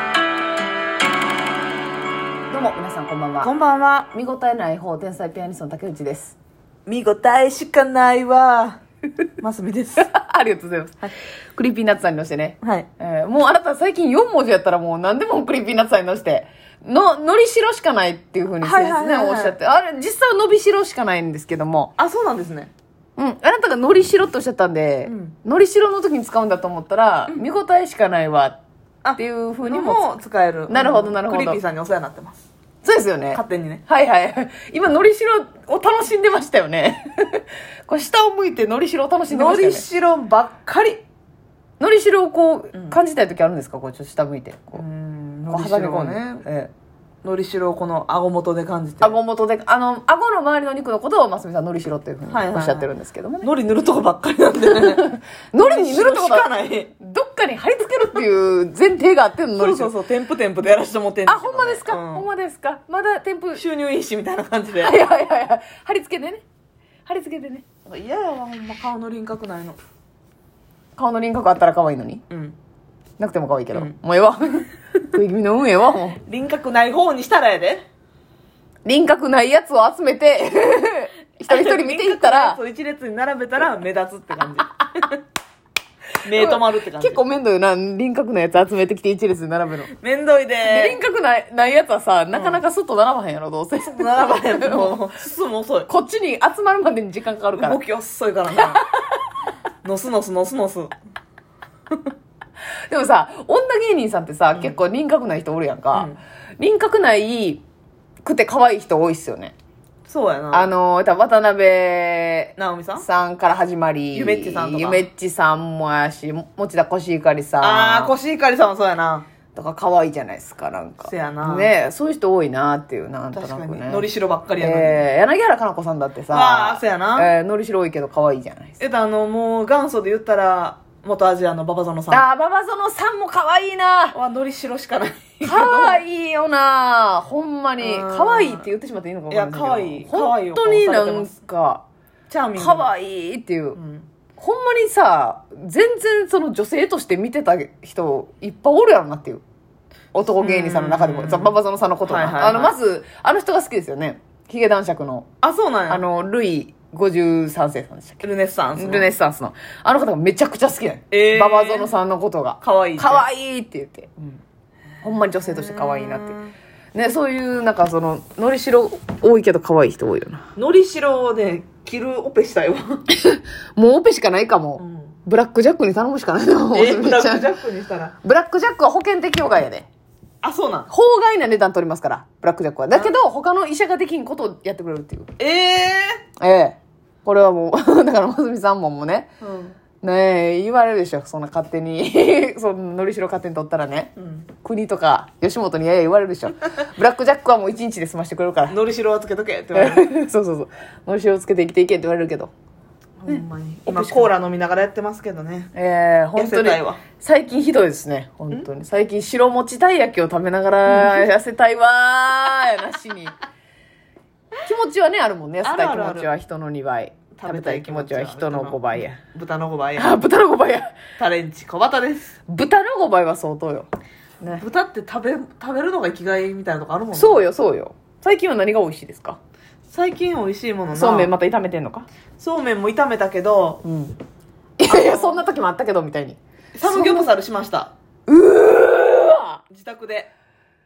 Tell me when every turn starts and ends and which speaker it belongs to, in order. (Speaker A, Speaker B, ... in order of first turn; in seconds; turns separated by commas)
Speaker A: 2.5-3.5, Speaker B: 3.4-4.1, Speaker A: 4.1-6.4, Speaker B: 6.9-8.8, Speaker B: 9.4-10.1, Speaker A: 10.0-21.9, Speaker B: 12.6-12.9, Speaker B: 18.6-19.6, Speaker B: 22.0-22.7, Speaker A: 23.2-28.6, Speaker B: 25.1-25.4, Speaker B: 29.0-32.5, Speaker A: 29.2-30.0, Speaker A: 30.7-31.6, Speaker A: 32.8-39.8, Speaker B: 33.3-33.9, Speaker B: 39.3-41.0, Speaker A: 41.8-44.8, Speaker B: 42.7-43.0, Speaker B: 44.8-46.7, Speaker A: 45.5-46.2, Speaker B: 47.2-49.2, Speaker A: 49.0-53.5, Speaker B: 52.3-52.9, Speaker B: 53.4-55.1, Speaker A: 54.7-56.5, Speaker B: 55.6-56.9, Speaker A: 57.0-59.9, Speaker B: 59.6-62.3, Speaker A: 61.3-63.6, Speaker B: 63.5-65.0, Speaker A: 64.8-66.4, Speaker A: 67.1-67.6, Speaker B: 67.9-69.8, Speaker A: 71.0-72.2, Speaker B: 72.3-72.6, Speaker A: 73.2-76.2, Speaker B: 76.3-77.8, Speaker A: 78.8-82.6, Speaker B: 81.5-85.2, Speaker B: 86.2-87.2, Speaker A: 86.3-89.9, Speaker B: 90.0-91.0, Speaker A: 90.6-95.0, Speaker B: 92.3-92.6, Speaker B: 93.9-95.9, Speaker A: 95.9-97.8, Speaker B: 97.5-98.8, Speaker A: 98.5-98.9, Speaker B: 99.8-101.0, Speaker A: 102.9-107.6, Speaker B: 105.9-106.2, Speaker A: 108.2-109.5, Speaker B: 110.1-110.7, Speaker A: 110.5-118.1, Speaker B: 112.6-113.0, Speaker B: 114.1-115.0, Speaker B: 117.6-119.3, Speaker A: 119.5-124.1, Speaker B: 121.0-121.7, Speaker B: 123.3-125.0, Speaker A: 124.6-128.8, Speaker B: 126.3-127.3, Speaker B: 128.8-132.3, Speaker A: 132.1-134.2, Speaker B: 134.1-136.0, Speaker A: 135.4-141.8, Speaker B: 137.8-138.7, Speaker B: 139.3-141.4, Speaker B: 142.3-142.9, Speaker A: 142.6-143.8, Speaker B: 143.8-144.1, Speaker A: 144.4-149.4, Speaker A: 150.1-155.3, Speaker B: 150.4-152.8, Speaker B: 155.4-156.1, Speaker A: 155.9-164.4, Speaker B: 158.2-159.2, Speaker B: 161.1-161.9, Speaker B: 162.6-163.3, Speaker A: 165.0-166.4, Speaker B: 165.3-166.6, Speaker A: 166.9-170.5, Speaker B: 170.6-173.0, Speaker A: 173.2-177.5, Speaker B: 174.8-175.2, Speaker B: 176.7-178.2, Speaker A: 178.2-179.9, Speaker B: 180.4-180.9, Speaker A: 180.9-185.3, Speaker B: 185.4-186.2, Speaker A: 186.4-189.3, Speaker B: 189.4-189.8, Speaker A: 190.0-198.8, Speaker B: 194.2-194.5, Speaker B: 198.7-200.1, Speaker A: 199.8-202.5, Speaker B: 203.2-205.7, Speaker A: 203.3-204.3, Speaker A: 205.7-213.3, Speaker B: 206.3-207.0, Speaker B: 210.8-211.3, Speaker A: 214.6-219.2, Speaker B: 215.6-216.3, Speaker B: 217.4-220.2, Speaker A: 220.0-220.9, Speaker B: 221.2-222.3, Speaker A: 222.5-223.9, Speaker B: 224.6-227.4, Speaker A: 227.1-229.4, Speaker B: 229.9-231.3, Speaker A: 230.9-232.1, Speaker B: 232.4-233.8, Speaker A: 233.8-234.2, Speaker A: 234.8-237.3, Speaker B: 234.9-235.5, Speaker B: 236.8-237.9, Speaker A: 238.3-239.6, Speaker B: 239.7-240.3